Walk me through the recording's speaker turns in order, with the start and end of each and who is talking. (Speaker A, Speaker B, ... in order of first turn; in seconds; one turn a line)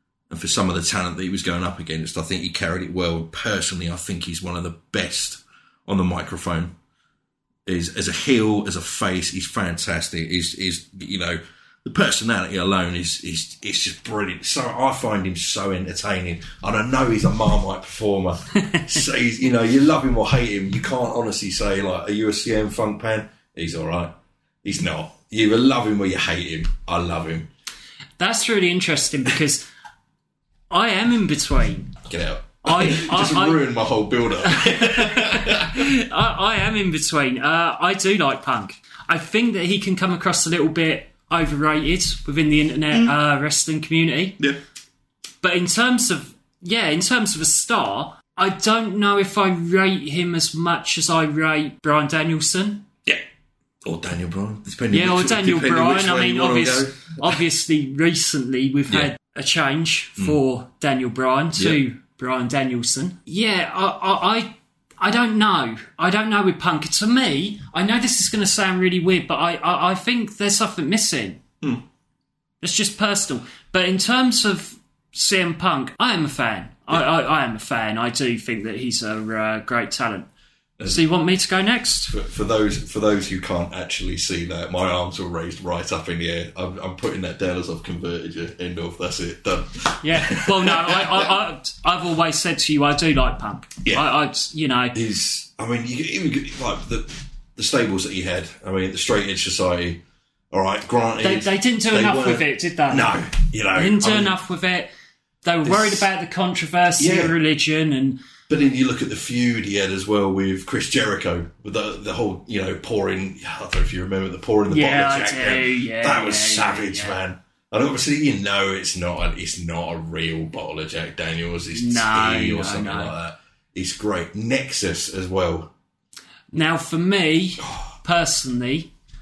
Speaker A: 0.3-6.7
Speaker A: 7.7-27.5
Speaker B: 28.2-29.6
Speaker B: 30.7-32.0
Speaker A: 32.1-35.9
Speaker B: 32.6-33.6
Speaker B: 34.4-44.4
Speaker B: 45.4-52.9
Speaker A: 53.8-57.4
Speaker B: 54.9-71.4
Speaker B: 72.6-80.3
Speaker B: 80.8-82.1
Speaker A: 82.1-91.4
Speaker B: 90.0-95.0
Speaker A: 94.9-100.0
Speaker A: 100.5-104.4
Speaker B: 101.2-103.2
Speaker B: 103.8-104.9
Speaker B: 105.4-108.2
Speaker A: 105.6-106.1
Speaker A: 107.0-107.3
Speaker A: 108.5-125.7
Speaker B: 114.7-117.2
Speaker B: 121.7-123.1
Speaker B: 126.5-128.9
Speaker A: 127.7-127.9